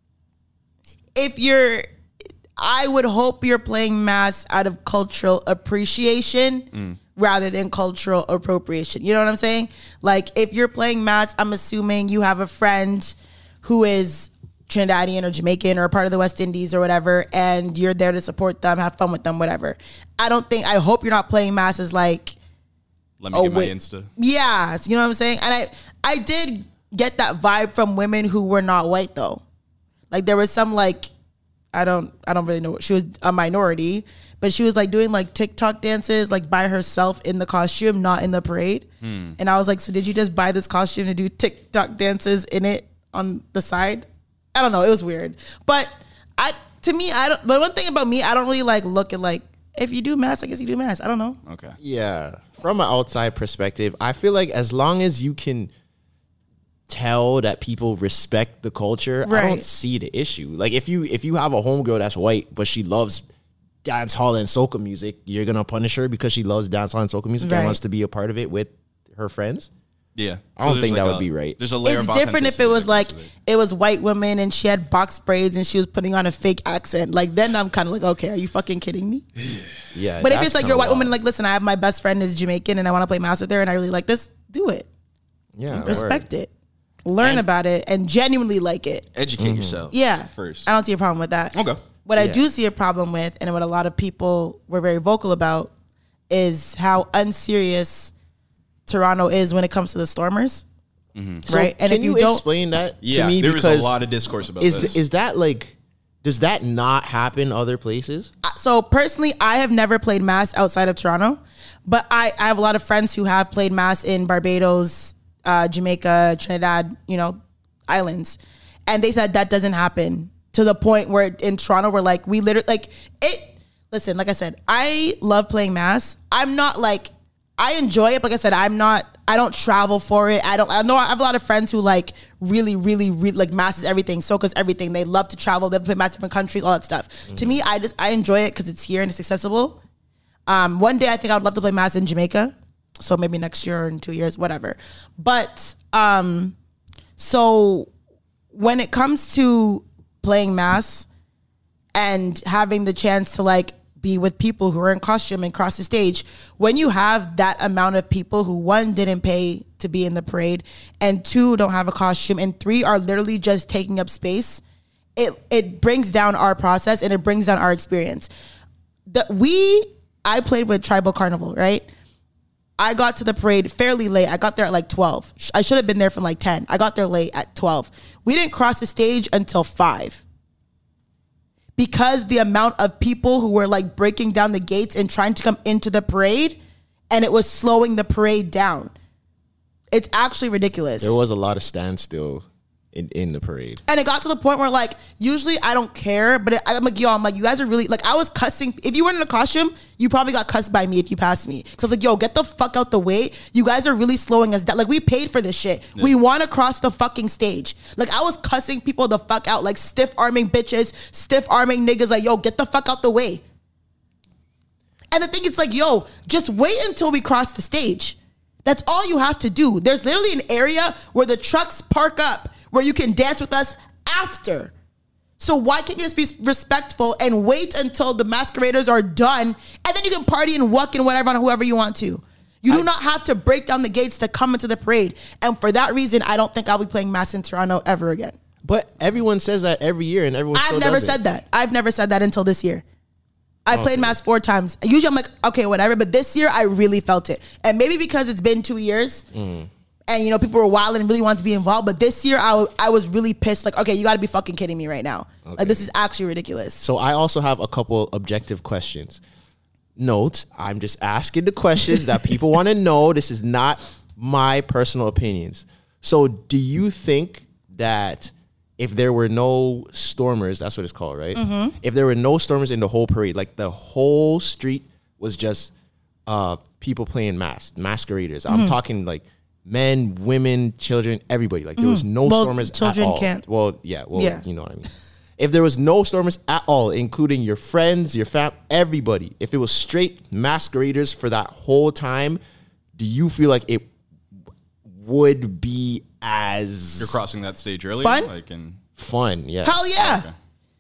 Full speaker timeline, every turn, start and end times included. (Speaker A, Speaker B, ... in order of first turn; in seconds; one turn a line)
Speaker A: 1.2-1.9
Speaker A: 2.6-22.4
Speaker B: 23.2-24.1
Speaker A: 23.3-29.4
Speaker A: 30.1-31.1
Speaker A: 31.7-38.9
Speaker B: 39.0-39.4
Speaker A: 39.4-51.4
Speaker B: 51.5-51.8
Speaker C: 51.8-55.7
Speaker C: 56.9-63.2
Speaker A: 59.2-59.7
Speaker C: 63.8-69.7
Speaker A: 67.4-67.8
Speaker B: 70.2-73.3
Speaker C: 70.6-71.6
Speaker A: 71.8-79.2
Speaker C: 79.9-81.2
Speaker A: 80.2-84.9
Speaker C: 85.6-86.3
Speaker B: 85.7-86.0
Speaker A: 85.8-86.5
Speaker A: 87.0-89.0
Speaker B: 89.2-90.7
Speaker C: 89.4-89.9
Speaker A: 89.9-95.7
Speaker B: 91.5-91.8
Speaker C: 92.2-92.4
Speaker A: 96.3-98.1
Speaker A: 98.9-100.6
Speaker B: 101.2-101.5
Speaker C: 101.5-104.0
Speaker A: 101.5-102.4
Speaker B: 103.0-105.0
Speaker C: 104.6-108.3
Speaker A: 108.4-139.8
Speaker C: 137.3-137.6
Speaker A: 140.5-146.6
Speaker A: 147.2-147.9
Speaker A: 148.5-151.1
Speaker A: 151.9-164.6
Speaker A: 165.2-168.3
Speaker A: 169.1-171.9
Speaker A: 172.8-180.2
Speaker A: 181.8-186.6
Speaker A: 187.1-188.9
Speaker A: 189.9-191.2
Speaker C: 191.0-193.8
Speaker A: 193.9-213.4
Speaker A: 215.1-224.7
Speaker A: 225.4-238.4
Speaker C: 238.6-241.2
Speaker A: 240.5-242.8
Speaker A: 243.7-249.3
Speaker C: 243.7-244.2
Speaker C: 249.3-249.7
Speaker A: 250.1-256.8
Speaker C: 255.4-255.9
Speaker C: 256.8-259.2
Speaker C: 260.0-275.7
Speaker A: 271.4-271.8
Speaker C: 276.3-292.4
Speaker A: 278.5-278.8
Speaker A: 281.8-283.4
Speaker A: 284.1-284.4
Speaker C: 293.0-293.9
Speaker C: 294.9-297.2
Speaker B: 297.0-298.8
Speaker A: 298.0-298.3
Speaker C: 299.0-299.9
Speaker A: 299.6-300.3
Speaker B: 300.0-300.3